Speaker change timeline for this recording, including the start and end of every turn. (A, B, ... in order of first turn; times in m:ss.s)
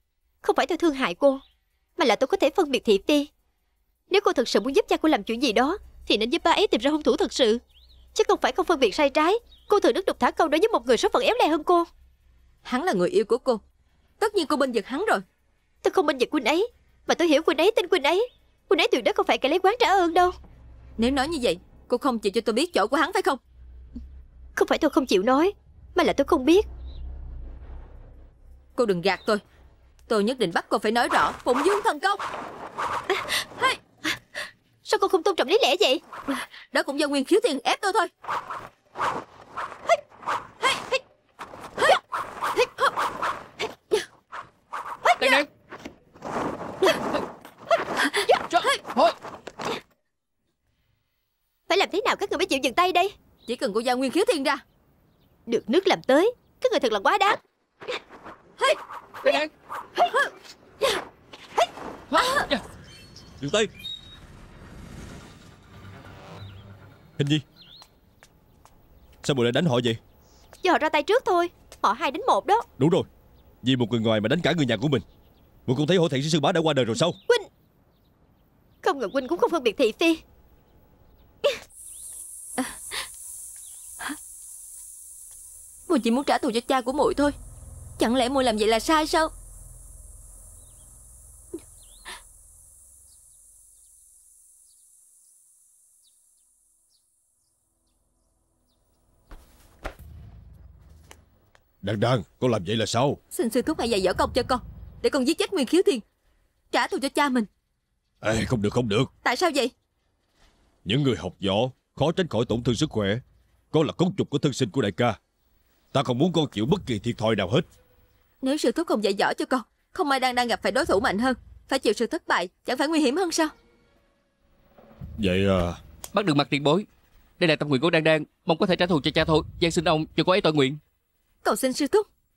0:00.4-0:01.4 A
0:02.0-0:03.3 A
0:04.1-0:07.6 A
0:08.1-0:11.9 A
0:12.6-0:13.6 B
0:14.2-0:15.2 B
0:15.8-0:20.3 A
0:21.0-0:23.4 B
0:24.6-0:26.6 A
0:28.8-0:29.4 B
0:30.1-0:32.2 B
0:34.8-0:36.0 A
0:36.7-0:38.1 B
0:45.0-0:45.4 A
0:45.2-0:45.4 C
0:51.7-0:53.1 A
0:53.5-0:54.6 B
0:55.5-0:57.4 A
1:02.2-1:02.5 C
1:03.4-1:03.7 D
1:07.2-1:07.4 D
1:09.2-1:10.0 D
1:10.6-1:12.6 A
1:12.8-1:13.1 D
1:13.6-1:15.0 D
1:15.6-1:17.2 D
1:18.8-1:20.2 A
1:25.9-1:27.4 B
1:28.0-1:29.3 B
1:41.8-1:43.2 D
1:43.3-1:46.0 B
1:46.7-1:47.5 B
1:48.2-1:49.1 D
1:49.2-1:49.7 B
1:50.8-1:55.2 D
1:55.9-1:57.7 D
1:58.4-2:03.5 B
2:05.2-2:05.8 D
2:06.1-2:06.8 C
2:07.4-2:10.8 C
2:11.4-2:12.1 B